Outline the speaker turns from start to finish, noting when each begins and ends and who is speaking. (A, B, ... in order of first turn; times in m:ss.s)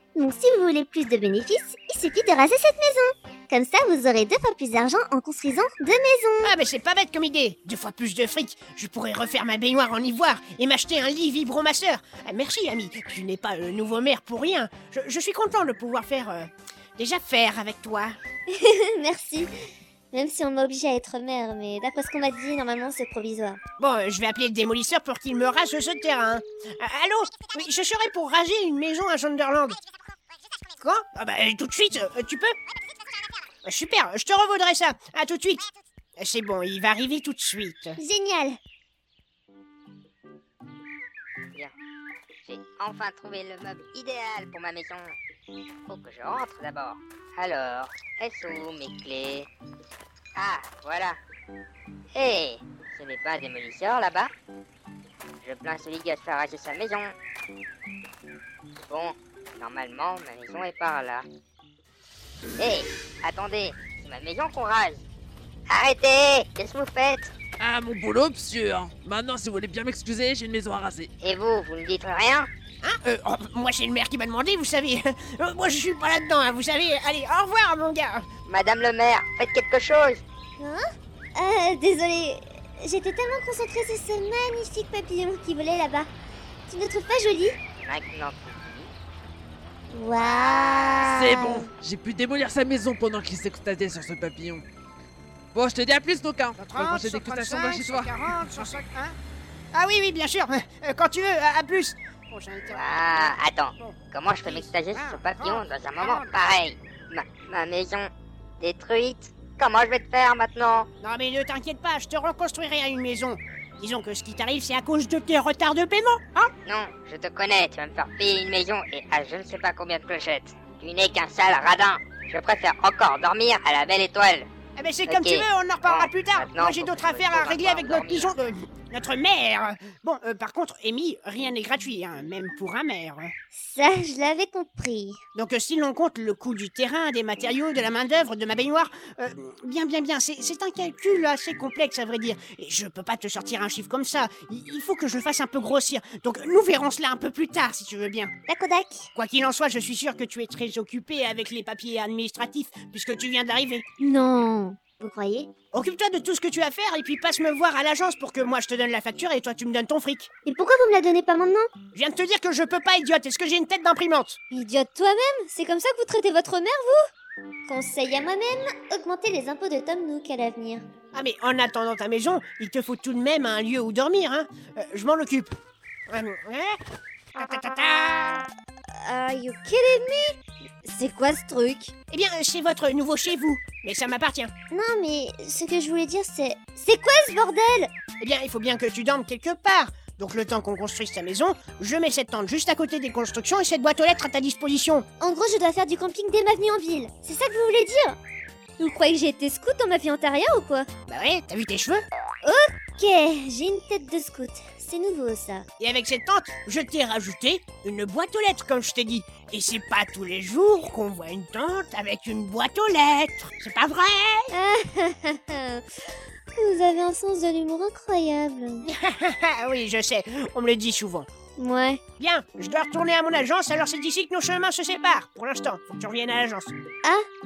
0:00.2-0:06.5 A
0:06.4-0:18.2 B
0:18.5-0:19.5 A
0:20.1-0:23.6 A
0:23.8-0:29.8 B
0:30.8-0:32.6 B
0:33.6-0:35.7 B
0:36.2-0:38.0 B
0:38.0-0:38.6 A
0:42.4-0:45.2 C
0:45.9-0:49.5 C
0:50.4-0:51.2 C
0:52.2-0:54.3 C
0:55.4-0:57.2 C
0:58.9-1:01.3 C
1:02.6-1:05.0 C
1:05.7-1:07.3 C
1:07.6-1:11.1 D
1:11.2-1:12.5 C
1:12.8-1:18.3 B
1:18.5-1:20.2 C
1:21.4-1:26.1 A
1:26.7-1:27.6 A
1:27.8-1:28.9 C
1:29.9-1:31.7 A
1:30.3-1:31.1 C
1:31.1-1:34.6 D
1:35.5-1:38.4 D
1:36.6-1:39.2 B
1:39.7-1:46.3 B
1:42.7-1:50.9 C
1:51.0-1:56.5 B
1:56.6-2:04.5 C
2:04.8-2:13.3 B
2:05.1-2:08.3 C
2:13.6-2:15.2 A
2:15.4-2:28.3 B
2:28.5-2:29.1 A
2:29.2-2:33.8 B
2:34.0-2:35.5 A
2:35.7-2:40.3 B
2:40.5-2:41.7 A
2:41.9-2:44.4 B
2:44.5-2:47.0 A
2:47.7-2:50.9 A
2:51.1-2:55.6 B
2:56.1-2:56.8 B
2:57.4-2:58.5 B
2:59.0-3:00.3 A
3:00.8-3:01.9 A
3:02.1-3:04.5 B
3:04.7-3:07.9 A
3:08.2-3:15.1 B
3:15.2-3:18.2 A
3:18.8-3:20.9 A
3:21.1-3:22.0 B
3:22.4-3:25.7 A
3:25.8-3:34.5 B
3:34.5-3:35.8 A
3:36.6-3:38.9 A
3:38.8-3:41.3 B
3:41.6-3:42.0 A
3:42.2-3:46.8 B